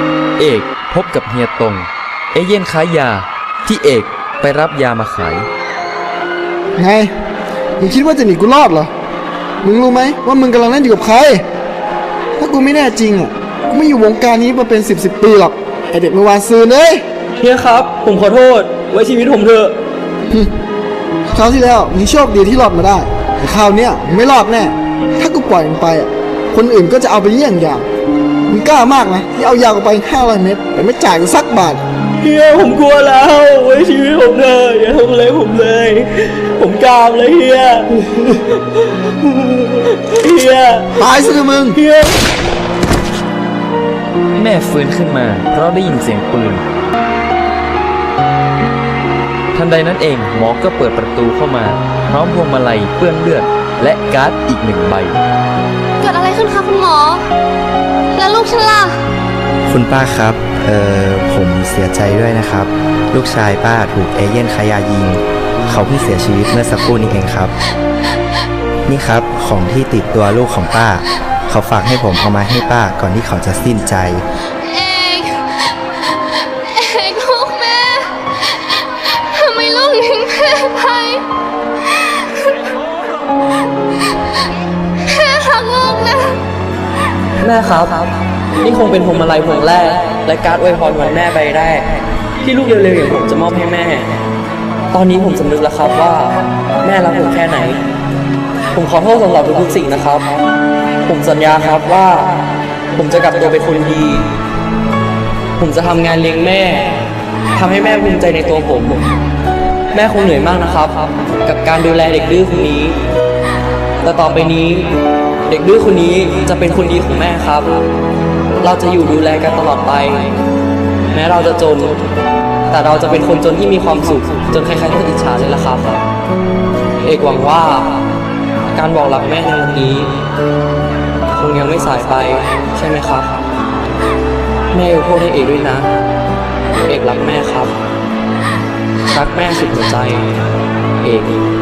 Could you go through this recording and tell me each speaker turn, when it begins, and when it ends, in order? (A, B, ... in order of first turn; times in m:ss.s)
0:00.4-0:05.5 A
0:06.8-0:07.1 B
0:07.8-0:08.9 B
0:09.6-0:11.4 B
0:12.4-0:17.0 B
0:17.4-0:19.7 C
0:21.3-0:27.9 B
0:28.5-0:31.8 B
0:32.2-0:38.4 C
0:39.7-0:41.0 C
0:41.0-0:41.8 B
0:41.8-0:42.2 C
0:44.4-0:46.6 A
0:49.5-0:55.2 A
0:56.0-0:57.3 D
0:58.1-0:59.0 D
0:59.7-1:07.5 E
1:08.9-1:14.2 E
1:14.6-1:15.7 D
1:16.6-1:21.2 D
1:25.0-1:26.4 D
1:27.4-1:28.1 C
1:28.6-1:31.9 C
1:32.4-1:34.1 C
1:34.9-1:37.8 C
1:38.7-1:40.3 C
1:41.0-1:42.3 C
1:43.0-1:44.2 C
1:45.6-1:46.9 C
1:47.6-1:49.0 C
1:49.9-1:53.0 C
1:54.0-1:54.9 C
1:55.5-1:57.8 C
1:58.6-2:00.3 C
2:01.1-2:02.0 C
2:02.7-2:06.0 C
2:07.0-2:07.9 C
2:08.7-2:10.1 C
2:11.3-2:13.4 C
2:14.7-2:15.9 C
2:16.9-2:17.7 C
2:19.1-2:20.3 C
2:21.0-2:21.4 C